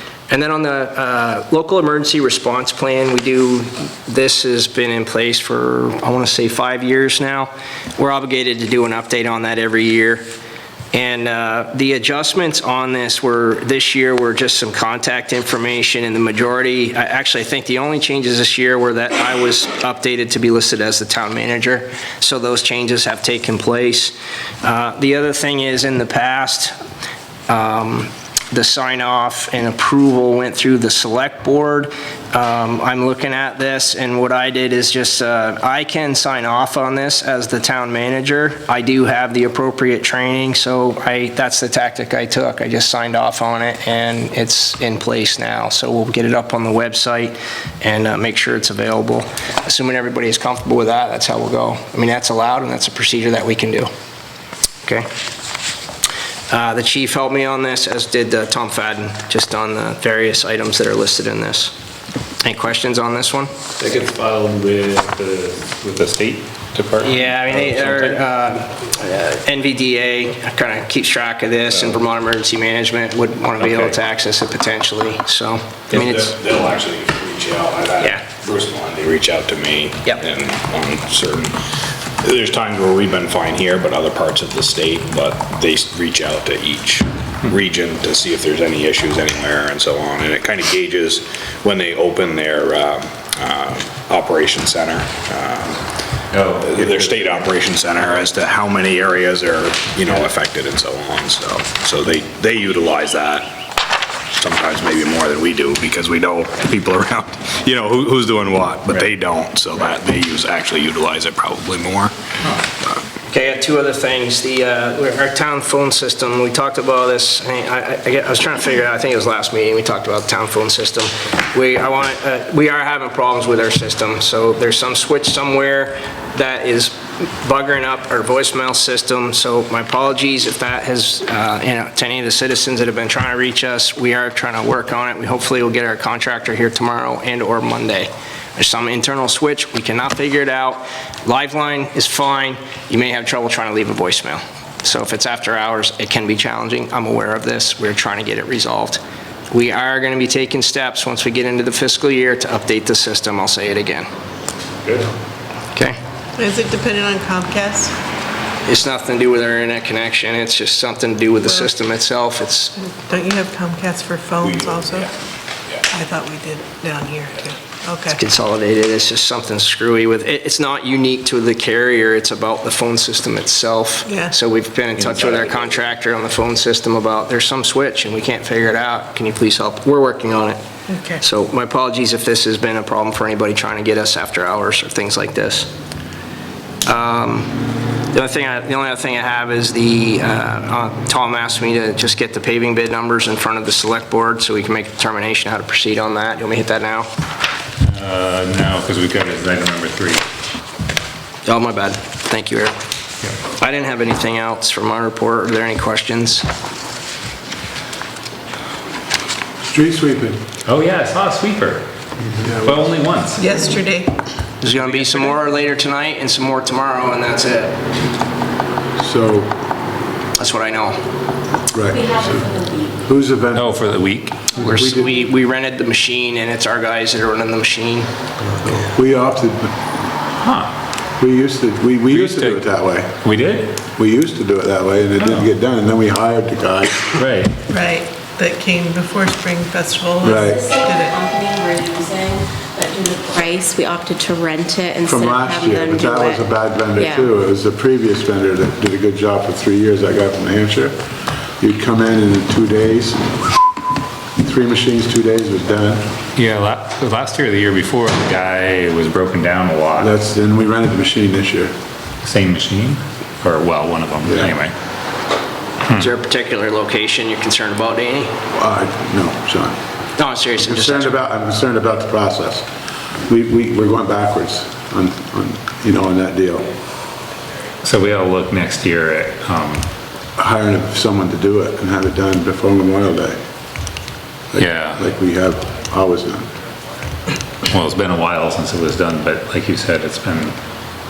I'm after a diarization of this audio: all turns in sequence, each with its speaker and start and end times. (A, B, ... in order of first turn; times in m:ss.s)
0:00.3-0:10.2 A
0:10.9-0:26.7 A
0:27.5-0:53.9 A
0:56.5-1:01.7 A
1:02.4-1:03.5 A
1:03.8-1:08.2 B
1:07.0-1:16.4 A
1:13.6-1:13.9 B
1:15.9-1:21.6 C
1:18.0-1:18.2 A
1:22.2-1:35.8 C
1:36.3-1:37.5 B
1:36.6-1:43.6 C
1:44.3-1:52.1 C
1:53.3-2:34.1 A
2:36.4-2:38.0 D
2:38.6-2:42.7 A
2:41.4-2:41.7 D
2:42.8-2:45.1 D
2:44.4-2:45.1 C
2:45.9-2:48.2 D
2:48.1-3:00.6 A
2:54.0-2:54.3 D
2:55.0-2:55.7 C
3:00.9-3:01.2 D
3:01.2-3:05.7 A
3:06.8-3:07.5 A
3:08.1-3:17.1 A
3:17.8-3:20.2 B
3:21.4-3:22.7 A
3:23.4-3:26.4 A
3:29.6-3:30.4 E
3:30.6-3:31.8 B
3:32.4-3:32.9 E
3:32.6-3:33.5 B
3:33.4-3:34.1 D
3:34.6-3:37.8 A
3:39.0-3:39.5 E
3:40.4-3:41.0 A
3:41.7-3:42.5 E
3:41.9-3:43.0 F
3:43.0-3:43.8 E
3:43.5-3:44.6 B
3:44.6-3:45.2 E
3:44.6-3:48.1 A
3:48.6-3:49.8 E
3:50.4-3:50.8 B
3:51.2-3:53.1 E
3:52.1-3:52.6 B
3:53.2-3:53.7 B
3:53.9-3:57.2 E
3:55.2-3:55.5 B
3:57.2-3:57.5 B
3:57.7-4:01.2 D
4:00.2-4:00.6 E
4:00.4-4:06.4 F
4:05.0-4:13.2 E
4:07.0-4:07.3 F
4:14.4-4:16.1 E
4:16.3-4:20.1 B
4:20.0-4:21.7 E
4:22.2-4:24.8 B
4:24.2-4:24.5 E
4:25.8-4:26.1 B
4:25.9-4:28.4 A
4:28.5-4:29.8 E
4:30.2-4:31.1 A
4:30.6-4:32.7 E
4:33.2-4:36.7 E
4:37.8-4:39.9 B
4:40.4-4:43.4 E
4:44.5-4:46.5 E
4:44.6-4:45.0 B
4:47.7-4:50.6 B